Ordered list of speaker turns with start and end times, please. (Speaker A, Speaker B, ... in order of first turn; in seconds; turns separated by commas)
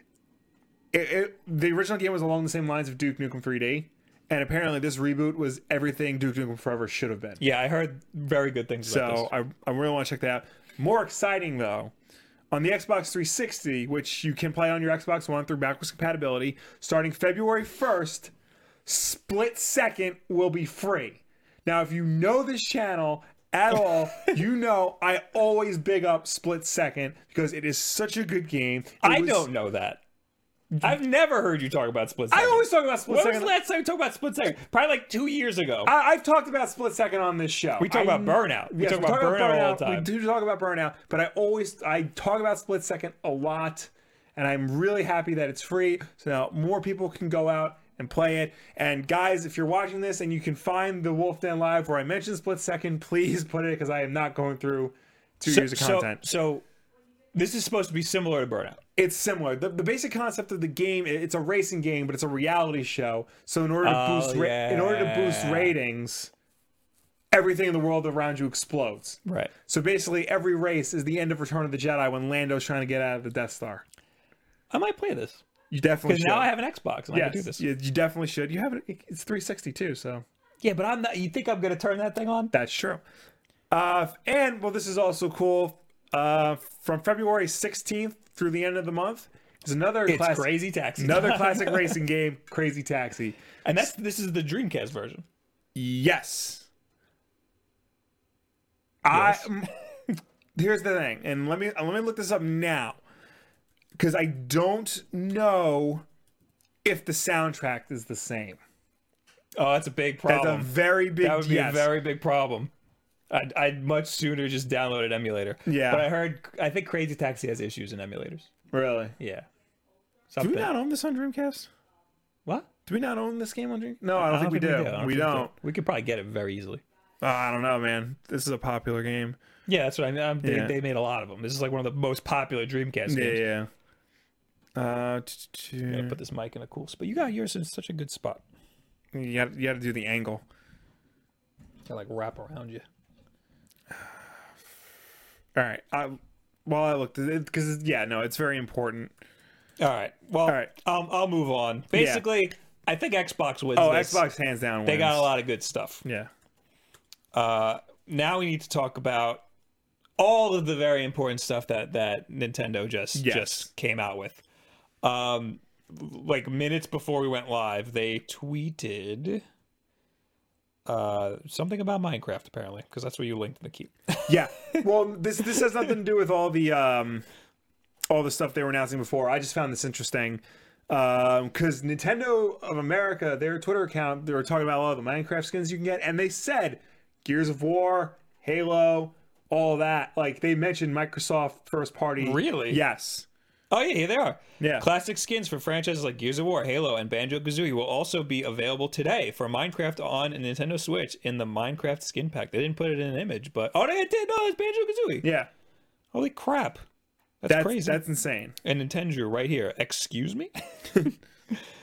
Speaker A: 0.9-7.4, Speaker B: 7.4-9.3, Speaker A: 8.8-11.9, Speaker A: 12.5-18.3, Speaker A: 18.9-29.5, Speaker B: 29.0-30.0, Speaker B: 30.8-35.9, Speaker A: 32.3-33.5, Speaker A: 35.9-56.2, Speaker B: 37.8-40.1, Speaker B: 55.5-56.6, Speaker B: 57.3-58.8, Speaker A: 59.0-66.3, Speaker B: 63.8-65.8, Speaker A: 67.3-73.8, Speaker B: 69.2-69.5, Speaker B: 74.7-75.4, Speaker A: 75.7-76.5, Speaker B: 76.1-77.6, Speaker A: 77.1-80.2, Speaker B: 80.6-82.5, Speaker A: 82.5-83.0, Speaker A: 83.7-93.4, Speaker B: 90.1-92.0, Speaker B: 93.6-95.3, Speaker A: 95.8-96.7, Speaker A: 99.0-99.7, Speaker B: 99.1-99.5, Speaker A: 100.5-103.0, Speaker A: 104.0-106.0, Speaker A: 106.8-108.6, Speaker B: 109.6-112.7, Speaker A: 110.2-111.9, Speaker B: 113.3-118.5, Speaker A: 115.7-116.1, Speaker A: 118.7-119.2, Speaker B: 119.2-119.5, Speaker B: 120.3-120.7, Speaker A: 120.4-121.7, Speaker A: 122.9-125.5, Speaker B: 124.2-126.8, Speaker A: 127.2-129.4, Speaker B: 129.7-133.4, Speaker A: 130.4-130.8, Speaker A: 133.1-133.7, Speaker A: 134.8-136.2, Speaker B: 135.9-138.4, Speaker A: 139.1-140.4, Speaker B: 141.9-142.9, Speaker A: 145.6-149.2, Speaker B: 149.8-154.2, Speaker A: 151.9-152.2, Speaker A: 153.8-155.3, Speaker B: 154.8-156.1, Speaker A: 156.0-156.3, Speaker B: 157.3-159.4, Speaker B: 160.2-164.4, Speaker A: 163.2-163.7, Speaker B: 165.0-169.4, Speaker B: 170.9-174.8, Speaker A: 174.3-177.2, Speaker A: 178.1-193.3, Speaker B: 192.2-192.8, Speaker B: 193.7-205.3, Speaker A: 194.6-194.9, Speaker A: 205.2-205.5, Speaker B: 206.1-206.8, Speaker B: 207.4-208.0, Speaker A: 207.5-208.6, Speaker B: 208.6-211.1